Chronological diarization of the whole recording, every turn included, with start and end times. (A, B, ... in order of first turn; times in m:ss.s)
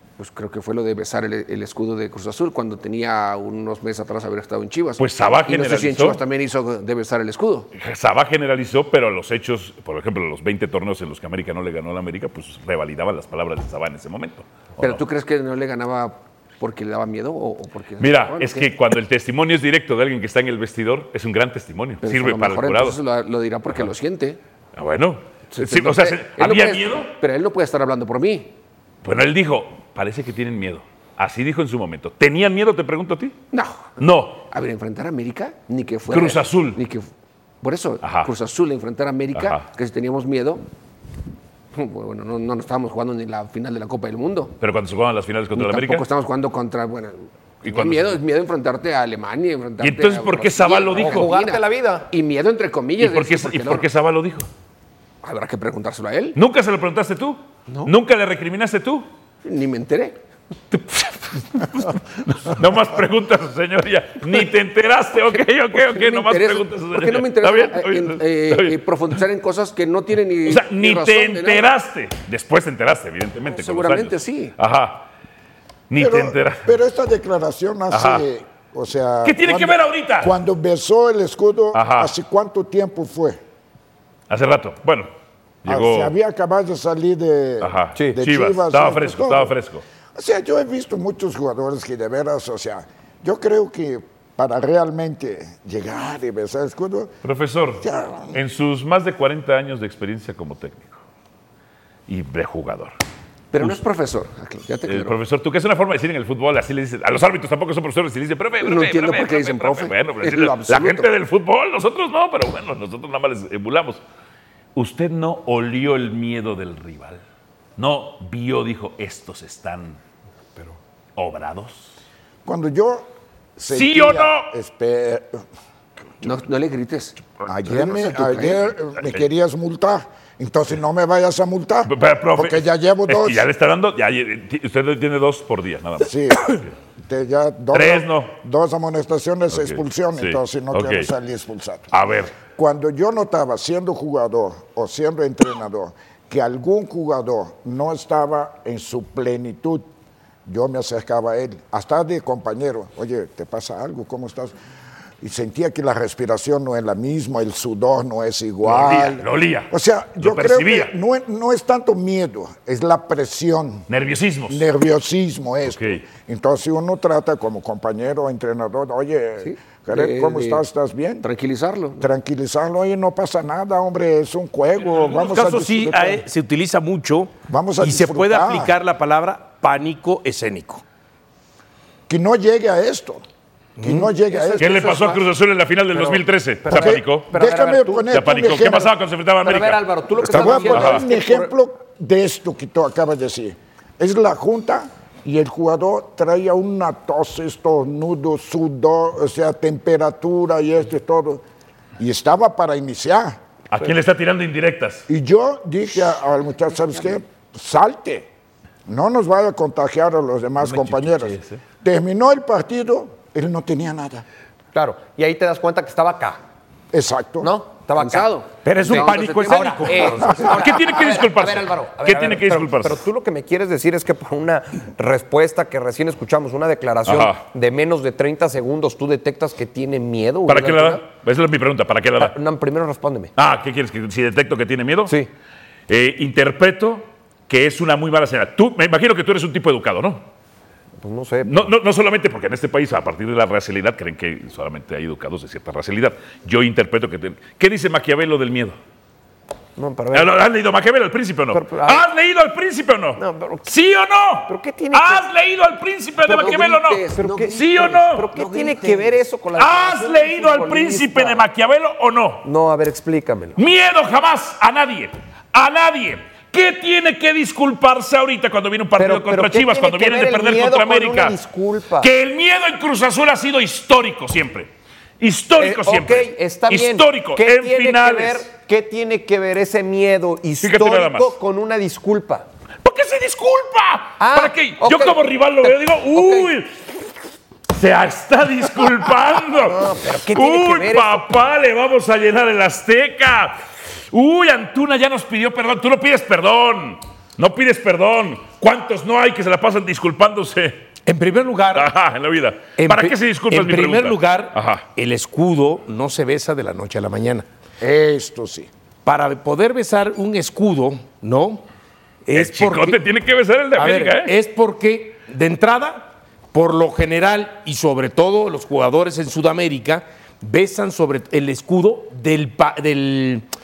0:00.2-0:07.7 A
0:05.0-0:06.2 B
0:07.7-0:15.0 B
0:14.8-0:18.7 A
0:18.0-0:23.0 B
0:22.0-0:24.4 A
0:24.8-0:27.1 B
0:25.5-0:28.5 A
0:29.0-0:33.3 B
0:33.5-0:37.1 A
0:34.0-0:34.4 B
0:36.1-0:36.8 B
0:37.6-0:40.6 A
0:38.0-0:38.3 B
0:39.3-0:39.6 B
0:41.7-0:44.5 A
0:44.6-0:46.0 B
0:45.5-0:53.8 A
0:47.6-0:48.2 B
0:49.8-0:51.3 B
0:50.9-0:52.0 C
0:53.0-0:54.5 B
0:55.2-0:56.4 A
0:56.3-0:59.1 B
0:59.4-1:00.2 A
1:00.7-1:08.8 B
1:05.3-1:11.7 A
1:10.4-1:15.1 B
1:13.4-1:14.5 A
1:15.9-1:16.7 B
1:16.0-1:23.4 D
1:17.9-1:18.2 B
1:19.2-1:20.4 B
1:21.7-1:22.1 B
1:24.3-1:25.1 B
1:25.6-1:26.1 B
1:25.6-1:29.5 D
1:27.6-1:29.8 B
1:30.1-1:37.2 D
1:37.2-1:41.0 B
1:37.8-1:38.4 D
1:42.1-1:42.9 B
1:43.5-1:45.2 A
1:44.9-1:54.0 B
1:48.6-1:51.1 A
1:54.7-1:57.2 B
1:57.8-2:00.0 B
2:01.2-2:01.9 B
2:02.4-2:05.4 D
2:03.6-2:04.5 B
2:06.2-2:08.7 A
2:07.5-2:13.5 D
2:11.9-2:16.7 B
2:16.0-2:21.9 D
2:17.7-2:18.3 B
2:19.5-2:21.1 B
2:21.9-2:22.3 B
2:22.5-2:29.9 D
2:30.4-2:34.5 D
2:35.2-2:43.8 D
2:38.6-2:40.9 B
2:43.9-2:44.6 B
2:44.5-2:51.2 D
2:45.6-2:46.0 B
2:49.4-2:50.6 A
2:51.2-2:52.1 A
2:52.0-2:56.2 D
2:55.1-3:00.8 E
2:57.5-2:58.7 D
3:02.1-3:03.2 D
3:03.8-3:04.1 E
3:03.8-3:05.0 D
3:04.3-3:05.2 C
3:04.6-3:04.9 A
3:04.6-3:07.3 B
3:05.9-3:08.1 C
3:06.7-3:08.9 D
3:08.1-3:11.0 B
3:09.4-3:11.5 C
3:10.2-3:21.4 D
3:22.0-3:23.4 D
3:23.7-3:25.0 B
3:25.1-3:28.3 D
3:28.8-3:34.2 D
3:30.6-3:31.6 B
3:34.7-3:36.4 C
3:36.9-3:37.5 D
3:37.4-3:38.3 C
3:37.9-3:40.8 A
3:38.6-3:40.4 E
3:38.9-3:51.0 C
3:40.4-3:43.0 B
3:47.0-3:47.4 B
3:50.5-3:52.3 B
3:52.2-3:53.3 C
3:53.4-3:55.1 B
3:55.9-4:00.2 B
4:01.0-4:01.7 C
4:01.4-4:08.8 B
4:09.8-4:10.3 C
4:10.1-4:18.3 B
4:11.5-4:12.0 C
4:13.2-4:13.7 C
4:14.5-4:15.2 C
4:16.2-4:19.2 A
4:17.2-4:17.6 C
4:18.1-4:21.4 C
4:19.6-4:22.4 B
4:22.4-4:23.6 C
4:23.6-4:31.3 B
4:29.0-4:32.1 C
4:32.0-4:38.5 B
4:35.6-4:42.4 C
4:40.6-4:41.3 B
4:42.8-4:46.7 B
4:44.2-4:46.5 C
4:47.7-4:53.6 B
4:49.7-4:51.3 C
4:54.1-5:00.8 B
5:01.0-5:01.9 E
5:01.7-5:04.9 B
5:02.8-5:07.4 E
5:07.8-5:08.7 D
5:09.0-5:11.6 E
5:12.2-5:13.1 E
5:12.3-5:14.3 B
5:13.8-5:23.4 E